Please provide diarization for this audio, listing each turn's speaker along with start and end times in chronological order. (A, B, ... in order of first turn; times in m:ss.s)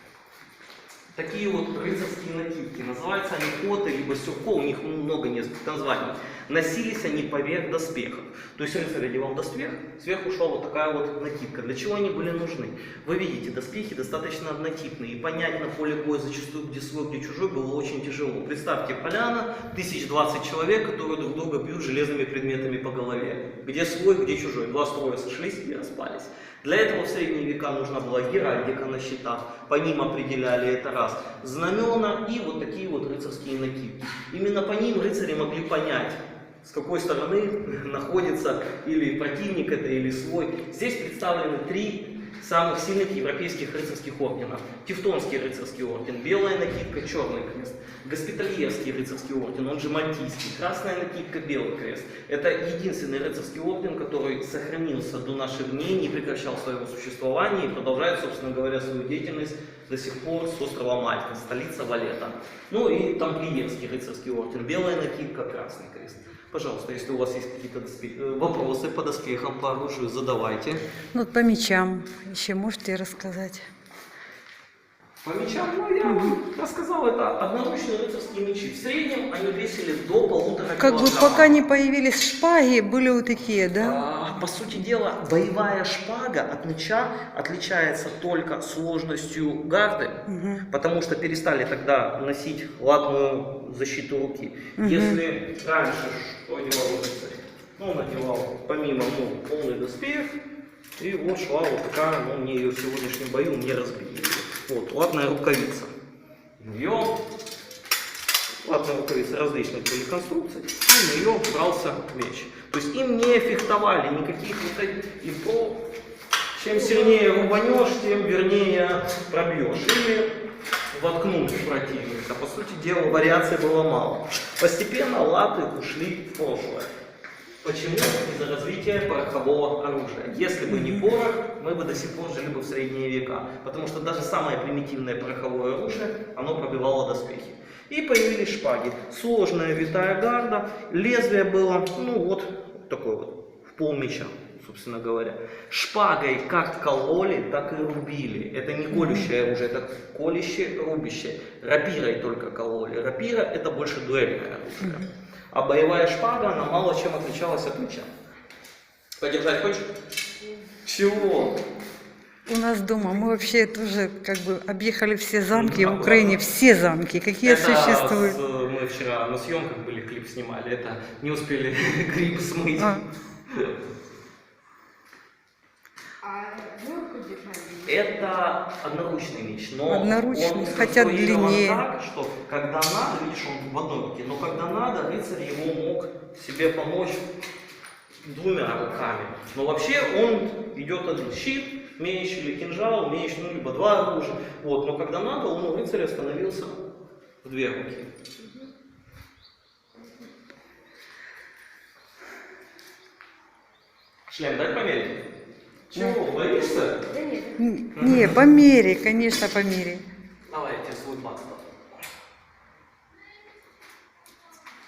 0:01.2-1:10.8 A
1:11.1-1:13.6 B
1:15.2-1:21.5 A
1:16.0-1:16.4 B
1:20.8-1:24.0 B
1:23.8-1:40.3 A
1:30.3-1:30.6 B
1:34.8-1:35.2 B
1:41.0-1:45.9 A
1:46.6-1:47.2 A
1:48.6-1:55.8 A
1:56.5-2:00.3 A
2:00.9-2:06.9 A
2:07.6-2:38.1 A
2:10.7-2:11.0 B
2:28.9-2:29.3 B
2:39.2-2:39.9 A
2:40.8-2:41.6 A
2:42.5-2:48.4 B
2:45.5-2:46.4 A
2:47.4-2:52.9 A
2:52.8-2:53.0 B
2:53.5-2:53.8 A
2:56.2-2:58.3 C
2:57.9-3:07.2 A
2:59.9-3:01.8 B
3:08.2-3:16.8 A
3:17.4-3:18.1 A
3:18.4-3:18.7 C
3:20.0-3:20.3 C
3:24.3-3:25.2 A
3:25.9-3:27.0 A
3:27.1-3:27.6 C
3:27.6-3:30.0 B
3:28.0-3:28.4 A
3:30.5-3:31.7 A